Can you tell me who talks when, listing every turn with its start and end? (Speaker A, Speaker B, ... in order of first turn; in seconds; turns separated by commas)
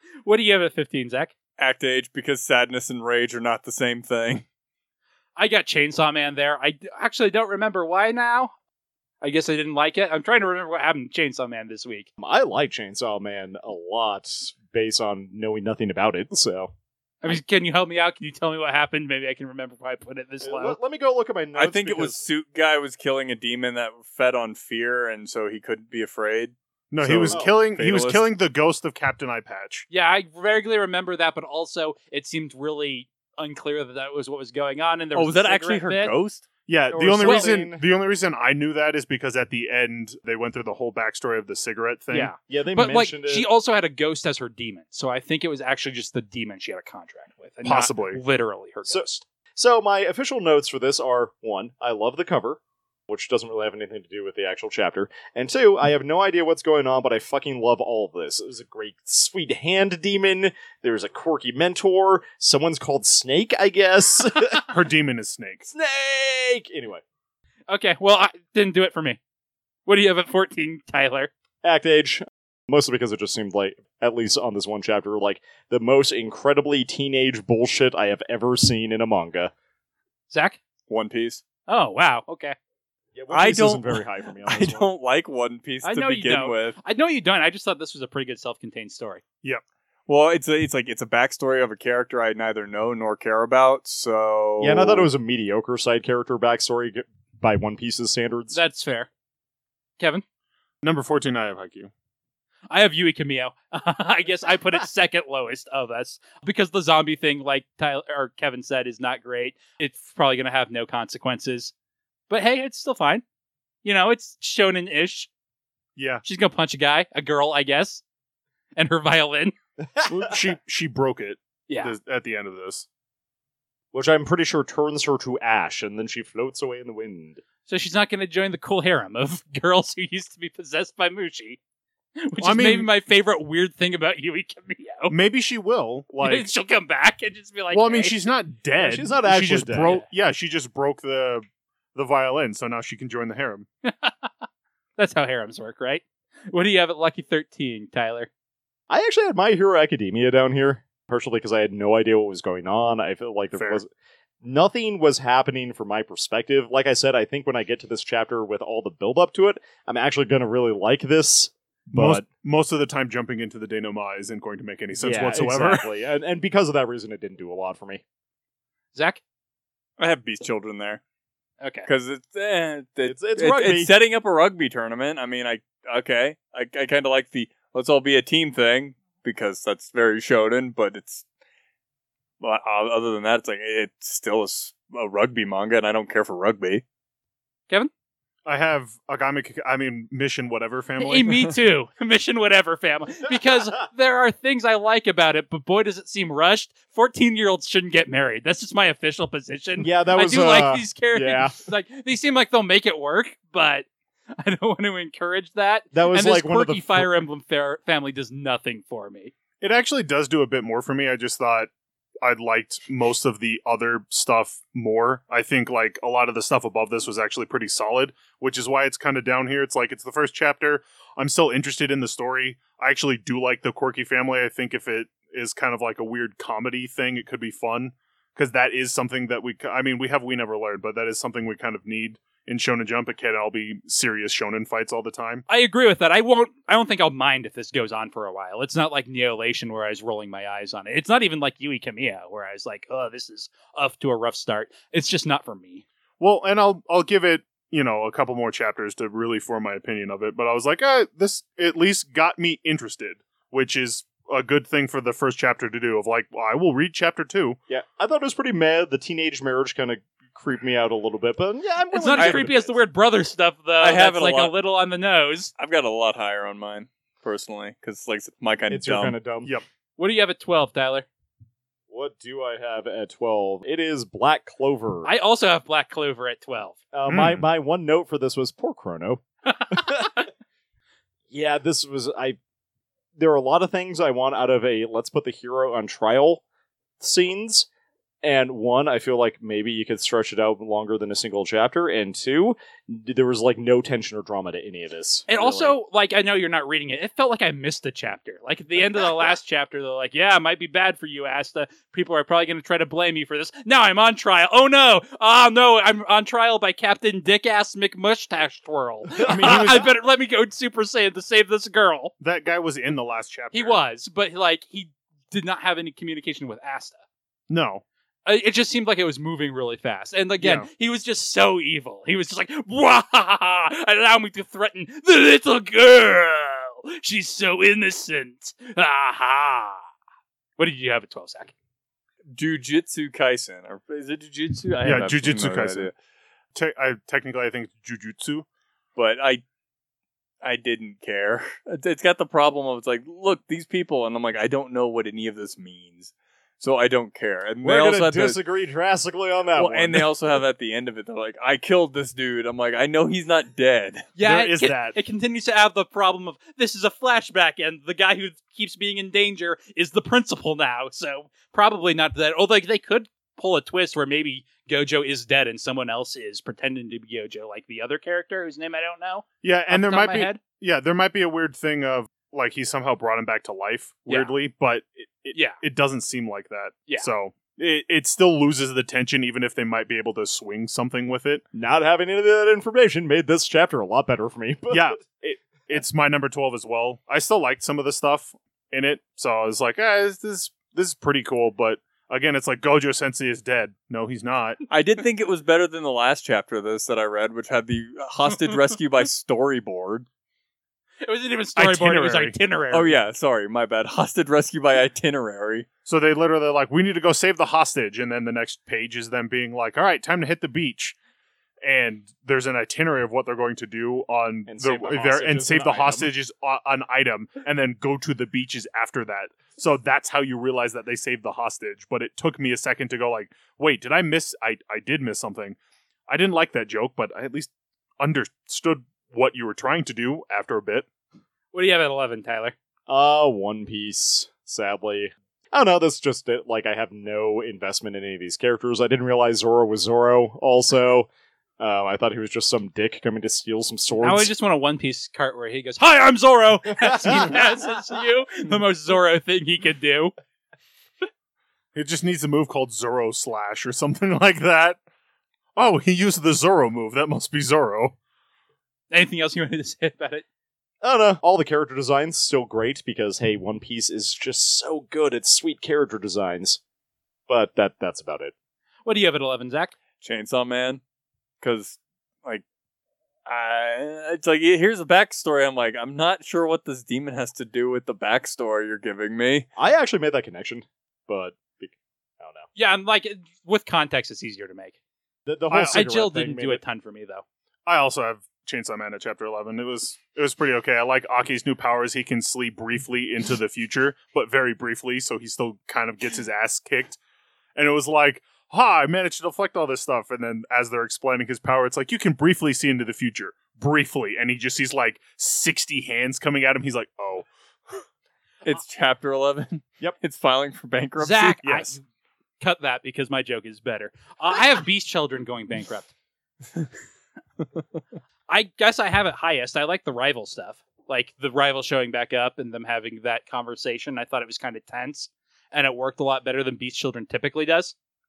Speaker A: 0.2-1.3, Speaker B: 1.6-4.4, Speaker A: 5.3-8.5, Speaker A: 9.2-12.1, Speaker C: 12.2-16.7, Speaker A: 17.2-20.8, Speaker C: 20.4-22.2, Speaker B: 21.6-28.3, Speaker D: 26.9-29.9, Speaker C: 27.2-27.5, Speaker A: 29.9-36.1, Speaker B: 35.1-36.5, Speaker D: 36.7-42.3, Speaker C: 36.9-37.8, Speaker A: 37.2-37.5, Speaker A: 42.1-49.1, Speaker C: 42.4-43.5, Speaker D: 47.6-48.2, Speaker C: 48.9-64.6, Speaker D: 64.7-65.7, Speaker C: 65.7-67.0, Speaker A: 67.7-69.2, Speaker A: 69.8-71.3, Speaker C: 71.6-79.5, Speaker A: 80.3-80.6, Speaker B: 80.9-81.4, Speaker A: 81.7-82.5, Speaker C: 83.1-84.9, Speaker B: 83.3-86.8, Speaker A: 85.8-89.2, Speaker B: 90.1-95.1, Speaker C: 94.6-98.6, Speaker A: 98.5-99.1, Speaker A: 100.0-100.2, Speaker D: 100.8-101.9, Speaker A: 102.7-111.7, Speaker A: 112.3-113.2, Speaker A: 113.8-115.3, Speaker D: 116.0-116.2, Speaker A: 116.2-118.0, Speaker A: 118.8-119.5, Speaker C: 119.8-120.3, Speaker D: 120.1-122.8, Speaker A: 121.7-121.9, Speaker C: 123.9-127.4, Speaker A: 127.7-131.6, Speaker A: 132.2-135.1, Speaker D: 132.4-132.9, Speaker D: 135.1-136.5, Speaker A: 136.2-138.2, Speaker D: 137.7-143.7, Speaker C: 138.8-140.0, Speaker A: 143.8-144.4, Speaker A: 145.0-148.3, Speaker C: 148.9-153.9, Speaker D: 153.6-153.8, Speaker C: 154.4-162.3, Speaker D: 161.9-165.8, Speaker C: 165.0-168.0, Speaker A: 168.9-169.2, Speaker B: 170.0-171.0, Speaker A: 171.6-171.9, Speaker B: 171.8-181.2, Speaker C: 173.0-173.9, Speaker B: 182.4-186.8, Speaker D: 188.4-191.5, Speaker A: 191.0-209.3, Speaker C: 199.8-201.6, Speaker C: 205.9-207.2, Speaker D: 209.6-211.7, Speaker D: 212.2-235.4, Speaker A: 235.5-245.8, Speaker D: 246.2-257.6, Speaker C: 257.7-262.8, Speaker A: 261.9-265.5, Speaker B: 262.2-262.4, Speaker B: 263.8-264.5, Speaker B: 265.6-269.2, Speaker C: 268.7-269.5, Speaker A: 270.0-271.1, Speaker C: 271.9-275.1, Speaker A: 275.0-276.8, Speaker C: 276.9-280.2, Speaker D: 277.1-277.4, Speaker A: 279.5-280.3, Speaker C: 281.3-282.4, Speaker C: 283.1-286.4, Speaker C: 287.0-287.7, Speaker C: 288.2-295.8, Speaker A: 295.3-312.1, Speaker D: 309.2-309.9, Speaker D: 312.2-313.8, Speaker A: 313.5-317.0, Speaker D: 317.5-317.8, Speaker A: 318.2-329.8, Speaker D: 320.4-320.7, Speaker A: 330.6-331.5, Speaker B: 332.3-335.9, Speaker D: 334.8-335.9, Speaker D: 336.5-338.4, Speaker B: 338.9-339.4, Speaker B: 340.4-348.4, Speaker C: 347.6-350.1, Speaker B: 349.6-354.1, Speaker A: 354.1-370.4, Speaker D: 354.2-355.0, Speaker D: 369.4-381.4, Speaker A: 374.1-374.3, Speaker A: 375.3-375.6, Speaker C: 381.5-385.0, Speaker D: 384.7-394.6, Speaker B: 394.7-400.1, Speaker A: 398.4-398.7, Speaker A: 401.0-402.9, Speaker D: 401.6-402.4, Speaker B: 402.7-405.6, Speaker D: 405.9-410.9, Speaker D: 411.6-425.6, Speaker C: 414.5-416.1, Speaker D: 426.1-430.9, Speaker A: 431.5-432.5, Speaker C: 432.9-444.3, Speaker A: 444.0-450.1, Speaker C: 446.7-447.4, Speaker D: 451.7-454.8, Speaker D: 455.6-457.9, Speaker A: 458.9-460.2, Speaker C: 460.8-466.6, Speaker C: 467.3-468.3, Speaker A: 468.9-469.7, Speaker B: 470.0-470.8, Speaker B: 471.4-472.4, Speaker B: 473.2-479.5, Speaker C: 479.6-482.5, Speaker A: 482.6-484.7, Speaker C: 485.2-486.6, Speaker D: 485.5-485.8, Speaker A: 485.7-487.2, Speaker D: 487.6-497.0, Speaker D: 497.6-507.8, Speaker B: 508.4-511.4, Speaker A: 511.0-511.8, Speaker D: 511.4-511.8, Speaker A: 512.4-515.9, Speaker A: 518.3-527.7